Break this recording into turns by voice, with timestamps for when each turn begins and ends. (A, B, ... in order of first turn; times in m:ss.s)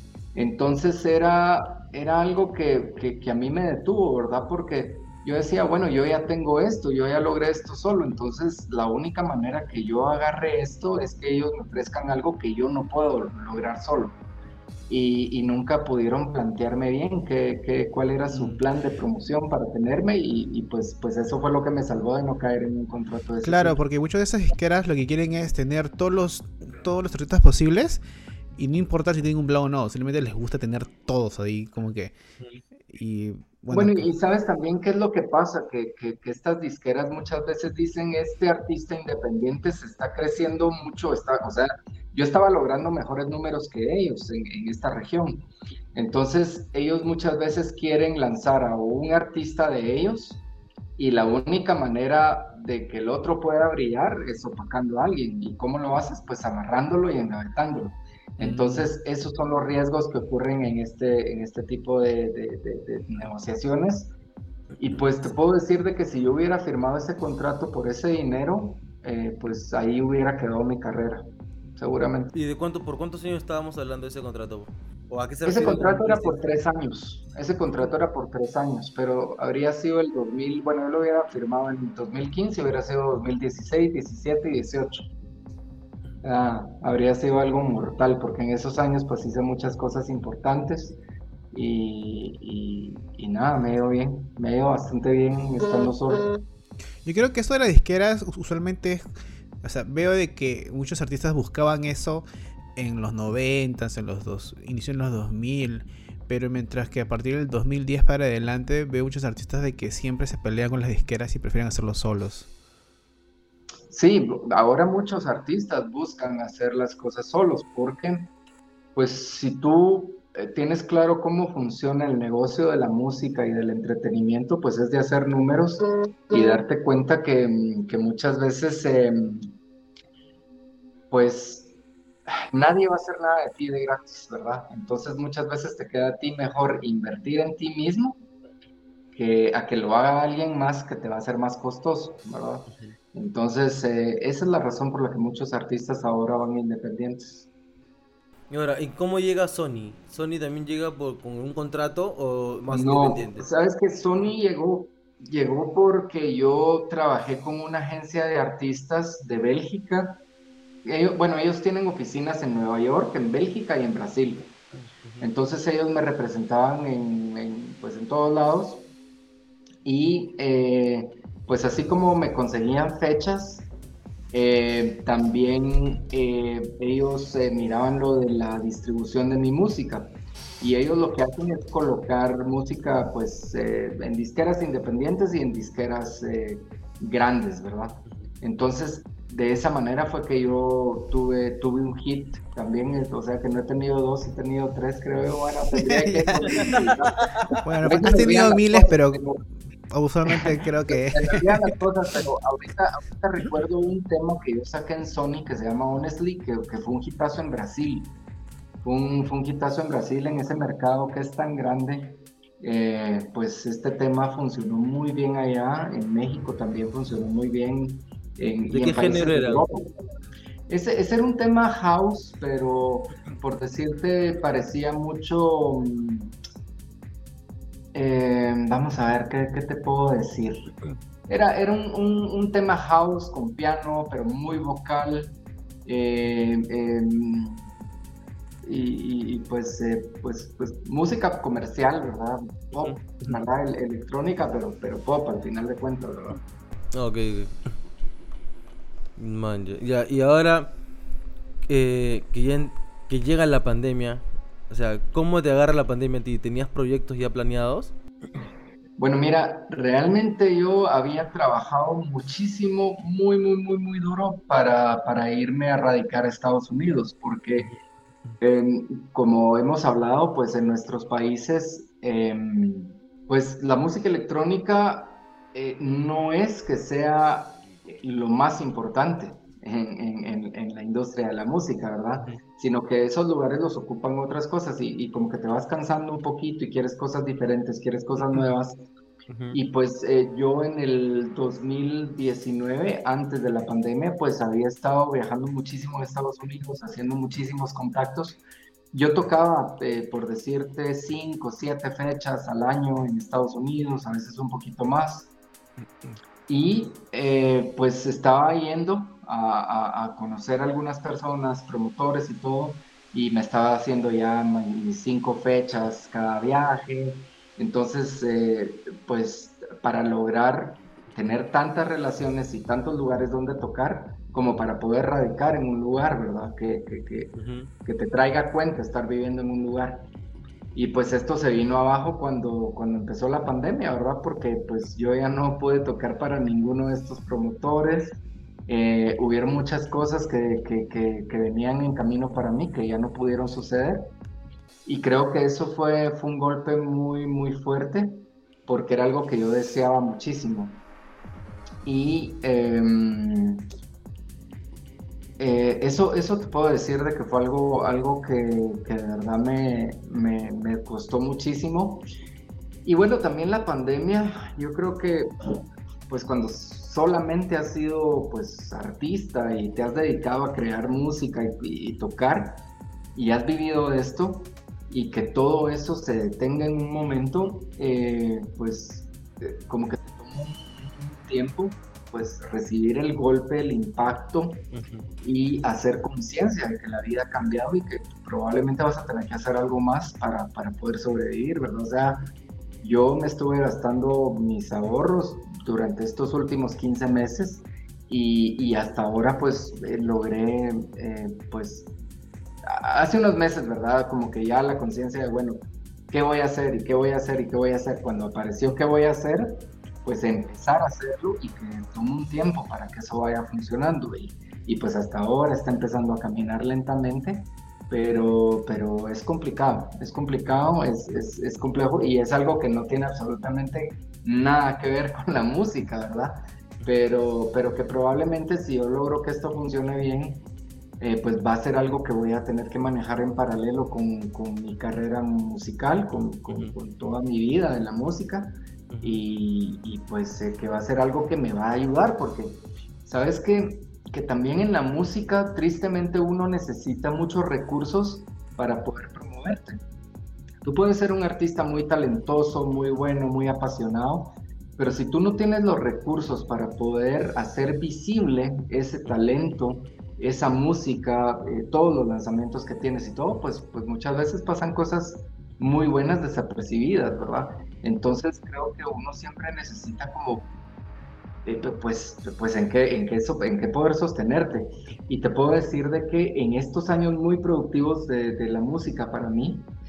0:00.4-0:14.2 A
0:14.9-0:23.8 A
0:18.3-0:18.6 B
0:23.4-0:28.0 B
0:28.6-0:32.2 B
0:32.9-0:34.1 B
0:33.7-0:50.4 A
0:51.0-1:04.2 A
0:58.4-0:58.9 B
1:04.8-1:12.3 A
1:12.3-1:16.4 C
1:15.5-1:25.1 A
1:26.2-1:31.0 A
1:31.5-1:36.3 A
1:37.0-1:39.0 B
1:39.6-1:42.2 B
1:42.8-1:52.5 B
1:53.9-1:58.3 A
1:59.0-2:09.6 A
2:11.1-2:11.7 A
2:12.3-2:18.2 A
2:19.1-2:27.5 A
2:22.7-2:23.0 C
2:28.5-2:33.5 C
2:32.7-2:40.2 A
2:40.8-2:44.6 A
2:45.2-2:48.9 A
2:49.8-2:53.7 A
2:54.3-3:17.3 A
3:15.9-3:16.8 B
3:17.6-3:19.2 B
3:17.8-3:19.4 A
3:19.9-3:21.7 B
3:20.3-3:28.1 A
3:28.8-3:39.9 A
3:38.7-3:39.7 C
3:40.7-3:46.3 A
3:47.9-3:50.6 A
3:51.3-3:55.4 A
3:55.9-3:57.7 A
3:58.6-4:06.4 A
4:02.8-4:03.4 C
4:07.0-4:07.7 C
4:09.2-4:10.8 C
4:11.7-4:18.0 C
4:19.0-4:27.7 A
4:28.4-4:48.8 A
4:49.3-4:49.6 C
4:49.5-4:58.4 A
4:58.9-5:05.3 A
5:06.5-5:27.3 A
5:27.4-5:27.7 C
5:27.8-5:30.1 A
5:30.8-5:44.1 A
5:44.8-5:50.8 A
5:51.8-5:53.6 A
5:55.4-6:02.1 A
6:02.8-6:05.6 A
6:06.1-6:12.6 A
6:13.2-6:24.6 A
6:24.7-6:25.1 C
6:25.2-6:41.9 A
6:42.7-7:10.4 A
7:11.0-7:29.8 A
7:16.5-7:16.8 C
7:18.9-7:19.2 C
7:30.6-7:50.5 A
7:51.4-7:59.7 A